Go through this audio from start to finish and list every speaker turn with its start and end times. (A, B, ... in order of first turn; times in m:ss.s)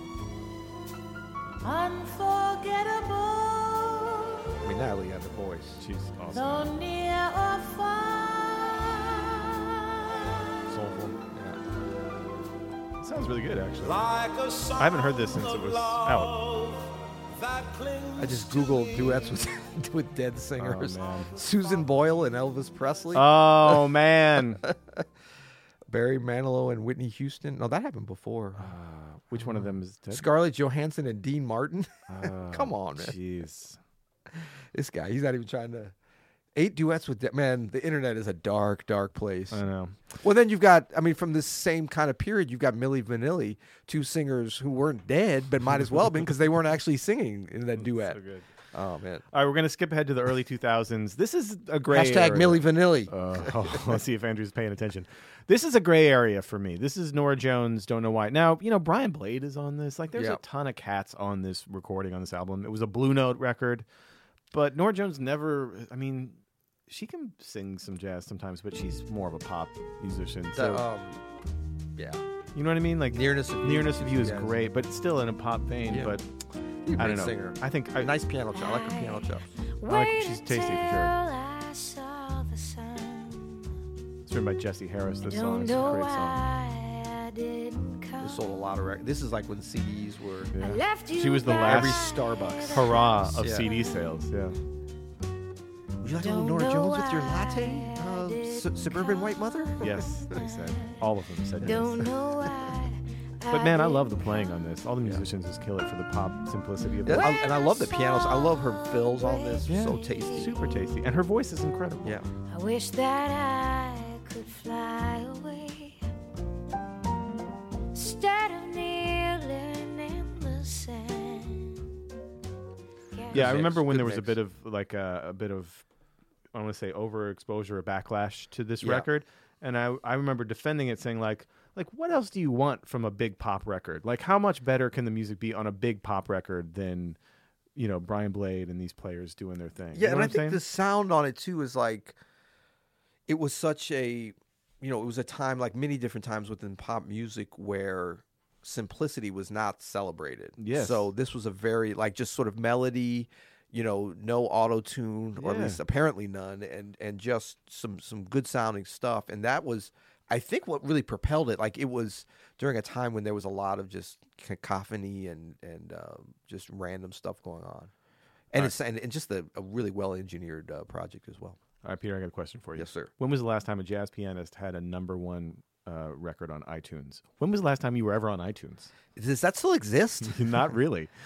0:01.6-0:04.6 A
0:04.6-0:05.8 B
0:05.8-0:06.6 C
0:06.3-0:10.6 A
0:10.7-0:11.2 C
0:11.3-0:11.6 B
0:13.0-0:14.1 C
0:13.8-0:19.3 D
0:14.8-0:16.4 C
0:18.2-0:23.8 B
0:20.6-0:21.3 C
0:23.1-0:24.6 C
0:24.6-0:25.0 B
0:25.9-0:28.7 B
0:28.6-0:30.3 C
0:29.4-0:33.2 B
0:32.1-0:33.8 C
0:34.3-0:35.9 B
0:36.5-0:39.6 B
0:39.5-0:40.1 C
0:40.2-0:48.2 B
0:47.8-0:48.4 C
0:48.7-0:49.2 B
0:49.3-1:03.8 C
0:51.9-0:54.0 B
1:00.1-1:00.4 B
1:04.5-1:10.8 C
1:10.5-1:11.2 B
1:12.0-1:12.2 B
1:12.5-1:16.2 C
1:13.1-1:14.6 B
1:15.9-1:16.2 B
1:16.8-1:19.4 B
1:17.0-1:18.1 C
1:18.5-1:19.2 A
1:19.8-1:23.7 A
1:19.8-1:21.2 C
1:24.2-1:26.5 C
1:25.3-1:28.3 A
1:28.2-1:30.5 B
1:30.5-1:32.1 C
1:30.6-1:32.7 A
1:31.4-1:33.7 B
1:32.7-1:34.6 C
1:36.0-1:40.5 B
1:36.2-1:39.1 A
1:39.8-1:42.1 C
1:41.6-1:42.5 B
1:41.6-1:44.2 A
1:43.5-1:47.3 C
1:47.0-1:50.6 B
1:47.2-1:48.5 A
1:49.4-1:50.3 A
1:49.6-1:52.2 C
1:52.5-1:56.0 A
1:57.9-2:01.8 A
2:03.3-2:04.4 B
2:03.3-2:05.8 C
2:06.5-2:17.2 C
2:08.8-2:09.1 B
2:17.8-2:20.6 C
2:19.9-2:22.2 B
2:23.3-2:47.9 B
2:30.6-2:31.1 C
2:35.4-2:35.8 C
2:48.5-2:51.6 B
2:51.8-2:58.9 C
2:52.8-2:53.1 B
2:59.2-3:00.8 B
3:00.2-3:01.1 C